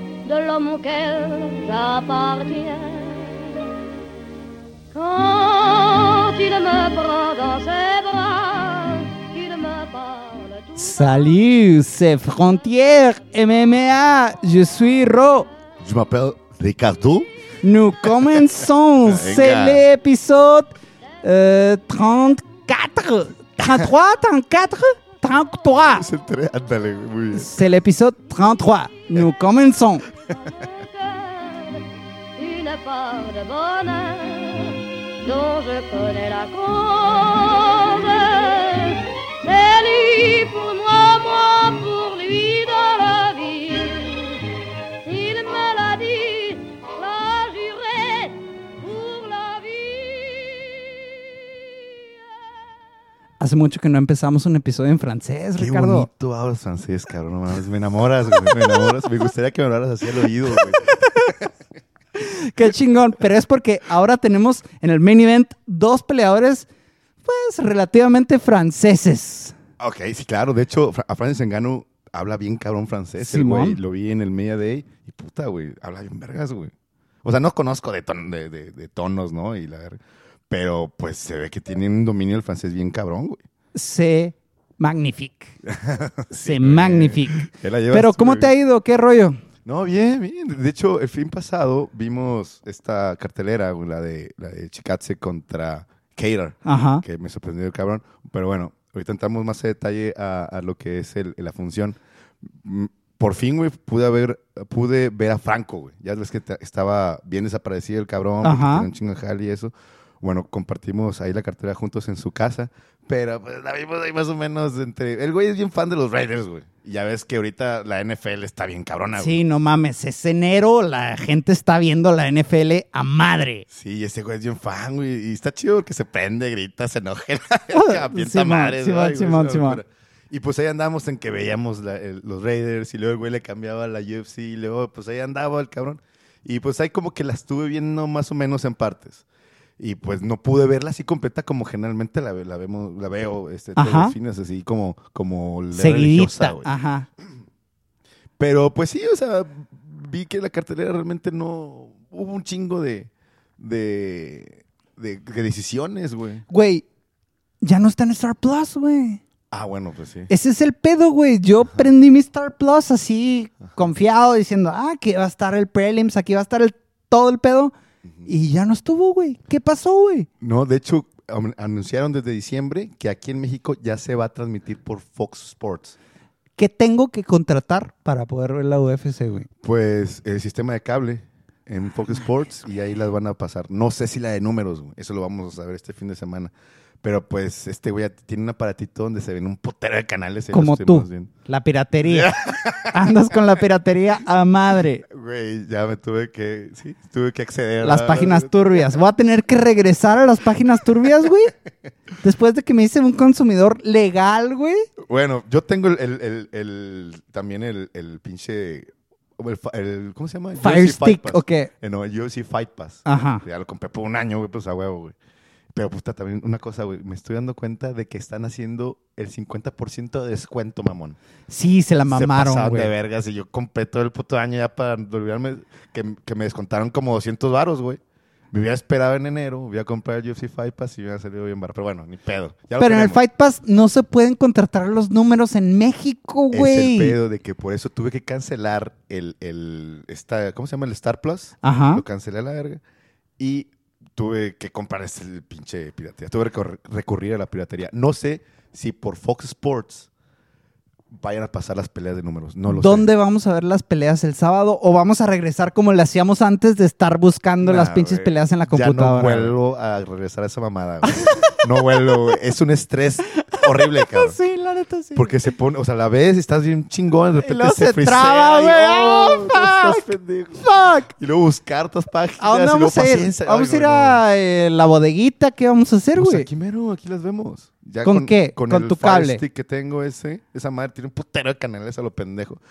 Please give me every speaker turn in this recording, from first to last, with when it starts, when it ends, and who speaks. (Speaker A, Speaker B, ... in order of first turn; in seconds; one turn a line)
Speaker A: 0.2-3.6
Speaker A: 4.9-11.3
Speaker B: 10.8-15.5
Speaker C: 15.8-17.3
Speaker B: 17.6-26.1
Speaker C: 18.2-18.5
Speaker C: 19.1-19.8
Speaker C: 25.9-27.5
Speaker B: 27.3-30.1
Speaker A: 30.5-31.8
Speaker A: 32.4-44.5
Speaker A: 45.0-50.9
Speaker B: 53.4-56.1
Speaker C: 55.6-61.5
Speaker B: 60.7-61.3
Speaker B: 62.1-66.7
Speaker B: 67.2-69.5
Speaker C: 69.8-76.7
Speaker B: 73.2-73.8
Speaker C: 77.2-83.4
Speaker B: 83.7-85.6
Speaker C: 85.6-88.5
Speaker B: 86.3-89.4
Speaker C: 89.6-119.3
Speaker B: 96.7-97.0
Speaker B: 108.4-108.9
Speaker B: 119.2-123.7
Speaker C: 123.7-139.2
Speaker B: 127.7-129.8
Speaker C: 139.8-146.7
Speaker B: 143.8-144.1
Speaker B: 145.7-147.1
Speaker C: 148.4-156.4
Speaker B: 156.5-156.8
Speaker B: 157.6-159.2
Speaker C: 159.5-160.3
Speaker B: 160.3-167.7
Speaker B: 168.2-170.3
Speaker C: 170.4-175.9
Speaker B: 176.6-179.5
Speaker C: 179.6-186.5
Speaker C: 187.0-191.3
Speaker B: 190.5-192.3
Speaker C: 192.1-193.1
Speaker B: 192.9-195.0
Speaker C: 195.1-199.0
Speaker B: 197.8-201.5
Speaker B: 202.2-204.9
Speaker C: 205.0-215.1
Speaker B: 210.6-211.7
Speaker B: 213.1-213.4
Speaker C: 215.7-221.2
Speaker B: 221.5-222.9
Speaker C: 222.1-228.0
Speaker C: 228.5-233.2
Speaker B: 232.8-237.2
Speaker C: 236.5-242.8
Speaker B: 241.6-242.0
Speaker C: 243.4-250.1
Speaker C: 251.1-253.1
Speaker B: 252.7-259.5
Speaker C: 257.6-264.4
Speaker B: 261.0-262.1
Speaker B: 263.4-265.3
Speaker C: 265.1-274.2
Speaker B: 267.4-270.1
Speaker B: 270.6-271.1
Speaker B: 272.4-276.5
Speaker C: 276.1-282.6
Speaker B: 278.0-279.4